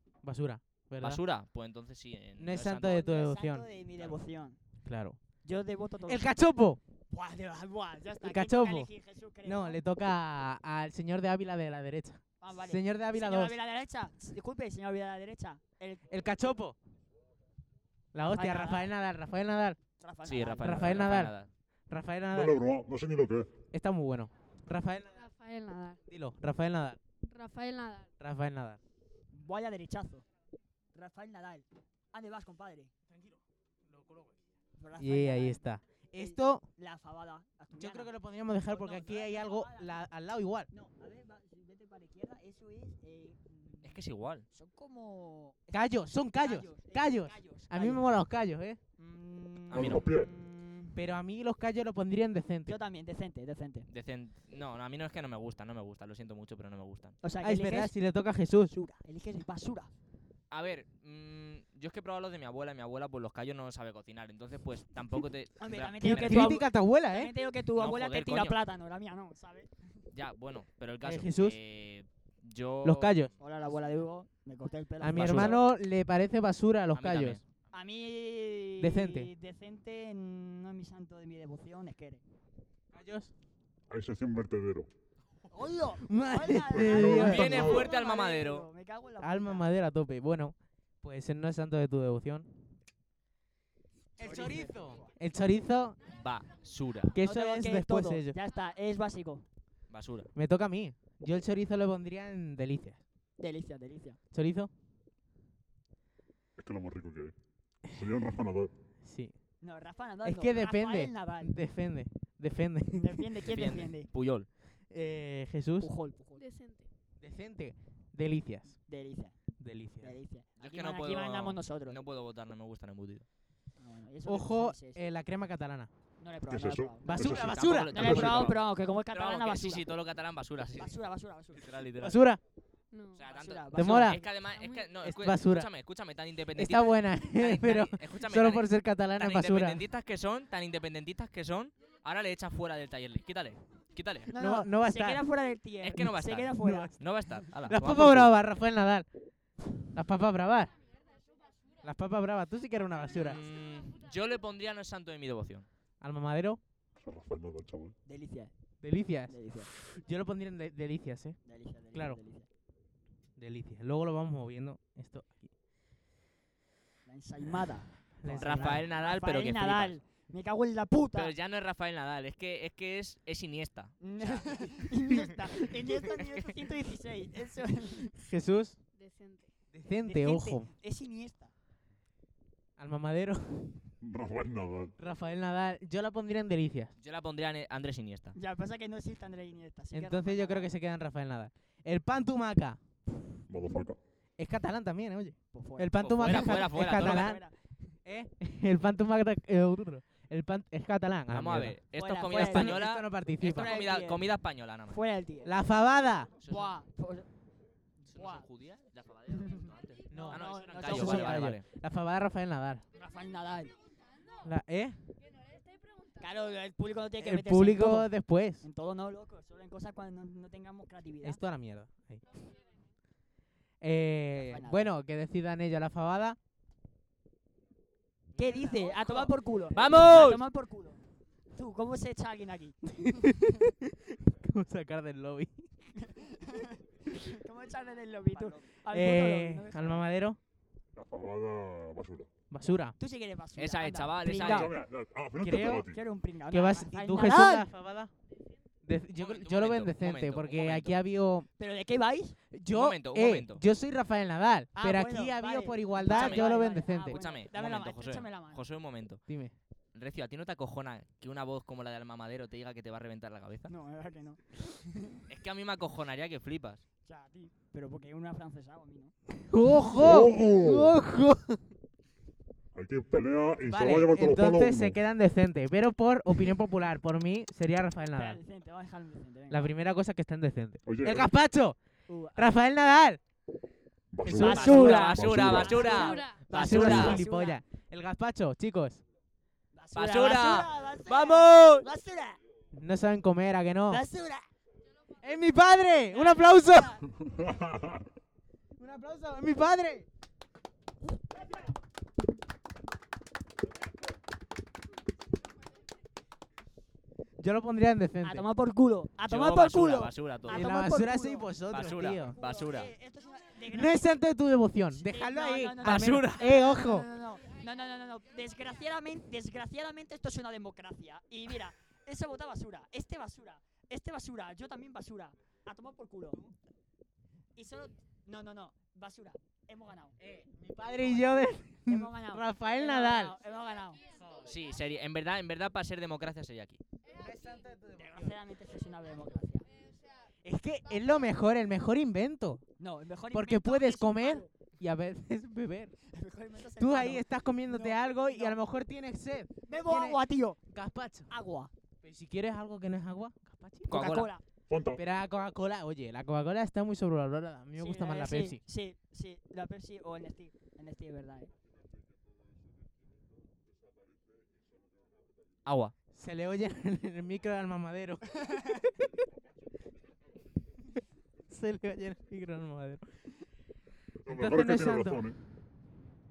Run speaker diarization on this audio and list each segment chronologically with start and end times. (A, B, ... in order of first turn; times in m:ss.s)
0:00.2-0:01.2 A
0:01.0-0:03.0 B
0:02.4-0:03.7 A
0:02.9-0:04.6 C
0:04.8-0:05.2 A
0:05.4-0:06.3 C
0:06.0-0:06.8 A
0:07.1-0:09.8 C
0:08.2-0:08.9 A
0:09.4-0:13.6 A
0:12.4-0:16.1 C
0:16.1-0:16.8 A
0:18.1-0:19.8 A
0:18.2-0:18.9 C
0:20.0-0:21.0 C
0:20.2-0:21.5 B
0:20.6-0:21.3 A
0:21.9-0:22.6 A
0:22.3-0:23.5 D
0:23.7-0:25.2 A
0:25.1-0:26.0 E
0:26.1-0:27.0 A
0:27.3-0:28.1 E
0:28.2-0:28.8 A
0:29.3-0:30.2 C
0:30.9-0:32.9 C
0:33.1-0:34.4 A
0:34.8-0:35.6 C
0:35.0-0:36.6 A
0:36.2-0:40.0 C
0:37.7-0:40.7 A
0:40.7-0:48.1 C
0:43.8-0:44.4 B
0:45.7-0:48.8 A
0:49.0-0:51.0 C
0:49.7-0:50.0 B
0:49.7-0:50.3 D
0:50.9-0:52.8 A
0:52.6-0:53.9 C
0:53.9-0:57.2 B
0:57.2-0:57.9 C
0:57.4-0:58.7 A
0:58.7-0:59.9 C
1:00.5-1:06.6 B
1:05.6-1:09.7 C
1:06.0-1:07.3 A
1:07.8-1:08.6 B
1:10.1-1:13.3 B
1:11.0-1:11.6 A
1:12.8-1:13.3 A
1:13.4-1:15.6 C
1:15.0-1:17.4 A
1:15.1-1:15.5 B
1:16.9-1:17.4 B
1:17.7-1:22.2 C
1:18.8-1:19.3 A
1:22.9-1:23.3 A
1:23.9-1:24.9 D
1:25.5-1:29.7 C
1:26.0-1:27.7 A
1:26.7-1:27.9 D
1:27.1-1:28.7 B
1:29.2-1:32.5 A
1:34.2-1:36.0 A
1:34.2-1:35.1 C
1:36.1-1:37.2 B
1:37.1-1:38.4 A
1:37.2-1:39.4 C
1:39.9-1:40.3 B
1:40.3-1:43.0 A
1:43.4-1:44.2 C
1:44.3-1:44.7 A
1:46.6-1:47.3 D
1:47.9-1:48.7 D
1:49.0-1:49.3 A
1:49.6-1:51.5 C
1:50.2-1:53.2 A
1:53.0-1:54.1 C
1:53.5-1:54.5 B
1:54.9-1:55.9 A
1:55.8-1:56.4 C
1:56.4-1:56.9 E
1:57.2-1:58.8 A
1:58.9-1:59.3 C
1:59.6-2:00.2 A
2:00.0-2:02.0 C
2:00.6-2:03.2 B
2:03.8-2:05.0 C
2:04.2-2:05.9 A
2:06.2-2:07.2 C
2:06.5-2:08.5 D
2:07.0-2:08.4 A
2:07.2-2:11.0 B
2:07.9-2:09.9 C
2:10.7-2:11.7 C
2:11.5-2:12.2 B
2:12.0-2:12.4 A
2:12.9-2:13.2 E
2:13.2-2:24.3 B
2:13.3-2:14.2 C
2:13.7-2:14.2 A
2:14.5-2:15.0 E
2:15.0-2:15.7 A
2:16.5-2:19.8 A
2:24.3-2:26.9 C
2:24.4-2:25.2 A
2:25.8-2:28.3 B
2:26.6-2:26.9 A
2:27.6-2:29.0 A
2:29.8-2:30.7 A
2:31.8-2:33.4 A
2:33.1-2:35.7 B
2:36.0-2:36.6 A
2:37.0-2:37.9 D
2:38.0-2:38.5 C
2:38.8-2:41.4 A
2:39.3-2:39.7 C
2:41.4-2:42.5 C
2:41.9-2:42.2 A
2:43.4-2:45.5 A
2:47.0-2:51.3 C
2:48.2-2:48.8 A
2:48.4-2:50.0 B
2:51.1-2:54.7 B
2:54.0-2:58.1 C
2:58.2-2:58.8 A
2:59.0-2:59.5 E
2:59.7-3:00.7 A
3:00.0-3:01.5 C
3:02.8-3:03.9 A
3:04.0-3:04.9 D
3:05.0-3:06.9 A
3:07.0-3:08.4 B
3:08.3-3:10.7 C
3:09.9-3:12.8 A
3:13.5-3:14.0 D
3:14.4-3:17.4 A
3:15.5-3:17.5 C
3:16.0-3:17.3 B
3:18.0-3:21.8 A
3:21.3-3:25.0 B
3:21.9-3:22.8 C
3:22.3-3:23.7 A
3:23.4-3:24.3 C
3:24.9-3:25.5 C
3:25.4-3:26.3 A
3:26.4-3:26.8 B
3:26.5-3:27.3 C
3:28.0-3:28.4 C
3:28.1-3:31.6 B
3:30.1-3:32.8 A
3:30.1-3:31.5 C
3:32.9-3:33.7 C
3:34.4-3:35.0 A
3:35.6-3:36.1 E
3:36.2-3:41.4 C
3:37.2-3:38.6 A
3:41.2-3:42.2 A
3:43.8-3:46.4 A
3:44.3-3:44.9 C
3:48.3-3:50.4 B
3:48.4-3:51.0 C
3:51.5-3:52.8 C
3:52.9-3:55.6 A
3:56.0-4:00.1 C
3:58.4-3:58.6 B
3:58.9-4:00.4 A
4:00.9-4:02.3 D
4:02.5-4:02.9 A
4:03.0-4:04.7 C
4:03.6-4:04.7 B
4:04.4-4:06.0 D
4:05.4-4:05.9 A
4:05.7-4:07.7 C
4:06.5-4:08.1 A
4:08.8-4:11.5 A
4:09.2-4:11.0 B
4:11.6-4:12.4 C
4:12.5-4:17.2 A
4:12.7-4:13.6 B
4:14.7-4:18.6 C
4:16.1-4:19.2 B
4:19.3-4:19.5 A
4:19.9-4:23.7 B
4:23.7-4:25.2 C
4:25.3-4:26.8 B
4:27.0-4:29.1 C
4:29.5-4:31.6 A
4:29.9-4:31.0 D
4:32.7-4:35.0 D
4:33.7-4:38.4 A
4:38.1-4:39.7 C
4:39.5-4:41.8 A
4:40.8-4:41.3 D
4:42.1-4:42.6 C
4:42.4-4:43.2 A
4:44.1-4:45.9 D
4:44.2-4:45.1 A
4:44.3-4:47.6 C
4:44.4-4:47.2 B
4:45.9-4:46.4 E
4:46.5-4:49.0 A
4:49.7-4:52.4 C
4:49.9-4:51.8 B
4:52.7-4:54.0 A
4:53.9-4:54.4 C
4:55.2-4:57.0 A
4:56.1-4:57.0 C
4:57.2-4:58.0 D
4:58.8-5:00.0 A
5:07.4-5:08.4 A
5:08.2-5:11.5 C
5:09.3-5:10.6 B
5:10.5-5:12.4 A
5:11.7-5:12.9 B
5:12.2-5:14.2 C
5:13.7-5:17.1 A
5:14.9-5:26.4 C
5:15.8-5:16.5 B
5:27.6-5:30.2 C
5:30.2-5:33.4 A
5:31.8-5:34.0 C
5:34.4-5:36.8 B
5:37.1-5:38.4 A
5:37.9-5:39.7 C
5:40.4-5:42.6 A
5:42.8-5:44.5 C
5:43.3-5:45.9 A
5:46.1-5:48.6 C
5:46.8-5:51.3 A
5:49.7-5:50.6 C
5:51.3-5:51.7 C
5:52.0-5:53.9 A
5:53.9-5:54.3 B
5:53.9-5:54.4 C
5:54.7-5:55.0 D
5:54.9-5:58.6 A
5:57.8-6:01.5 C
6:05.6-6:05.9 B
6:06.1-6:08.9 A
6:11.5-6:13.0 A
6:14.2-6:15.4 D
6:14.3-6:15.2 A